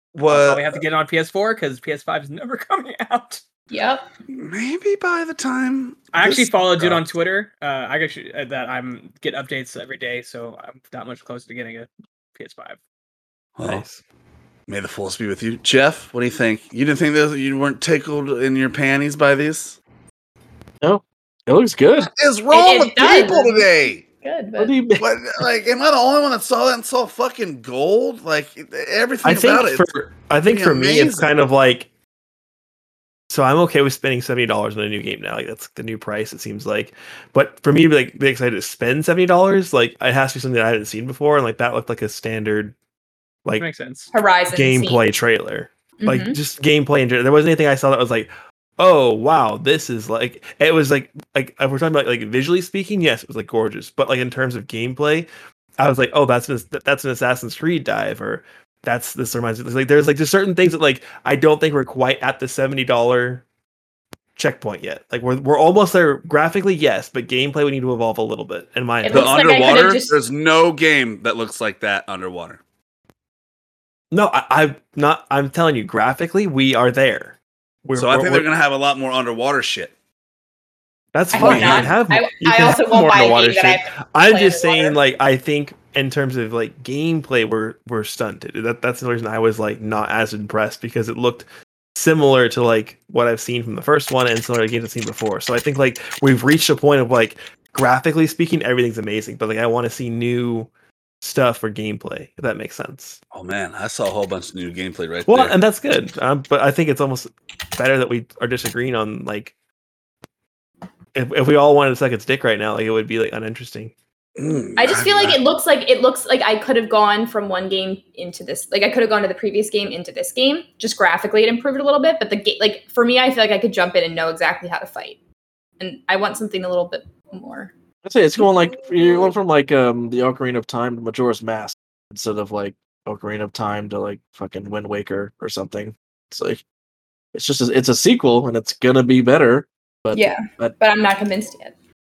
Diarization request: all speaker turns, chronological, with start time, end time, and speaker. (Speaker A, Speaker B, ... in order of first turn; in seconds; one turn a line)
Speaker A: 0.1-0.8
Speaker B: 0.3-3.4
Speaker C: 3.7-4.1
Speaker A: 4.3-7.0
Speaker B: 6.1-12.8
Speaker A: 13.6-13.9
Speaker D: 13.6-14.0
Speaker A: 14.7-19.8
Speaker E: 20.8-22.1
Speaker A: 22.1-24.1
Speaker C: 22.5-23.7
Speaker C: 24.2-24.8
Speaker E: 24.6-25.1
Speaker A: 25.0-29.9
Speaker D: 29.2-31.9
Speaker A: 30.5-31.3
Speaker D: 33.3-42.8
Speaker B: 43.6-44.1
Speaker C: 44.1-45.0
Speaker D: 44.5-63.5
Speaker C: 46.0-46.4
Speaker D: 64.4-69.4
Speaker C: 69.0-70.2
Speaker A: 69.1-72.6
Speaker D: 74.1-78.5
Speaker A: 78.0-79.9
Speaker D: 81.1-100.7
Speaker A: 81.3-81.9
Speaker C: 81.3-85.0
Speaker D: 101.2-103.2
Speaker A: 103.3-105.6
Speaker D: 105.3-109.5
Speaker D: 111.1-113.9
Speaker A: 114.4-115.4
Speaker C: 114.8-125.2
Speaker C: 125.8-127.7
Speaker E: 128.0-136.6
Speaker E: 137.3-140.8
Speaker C: 140.1-141.7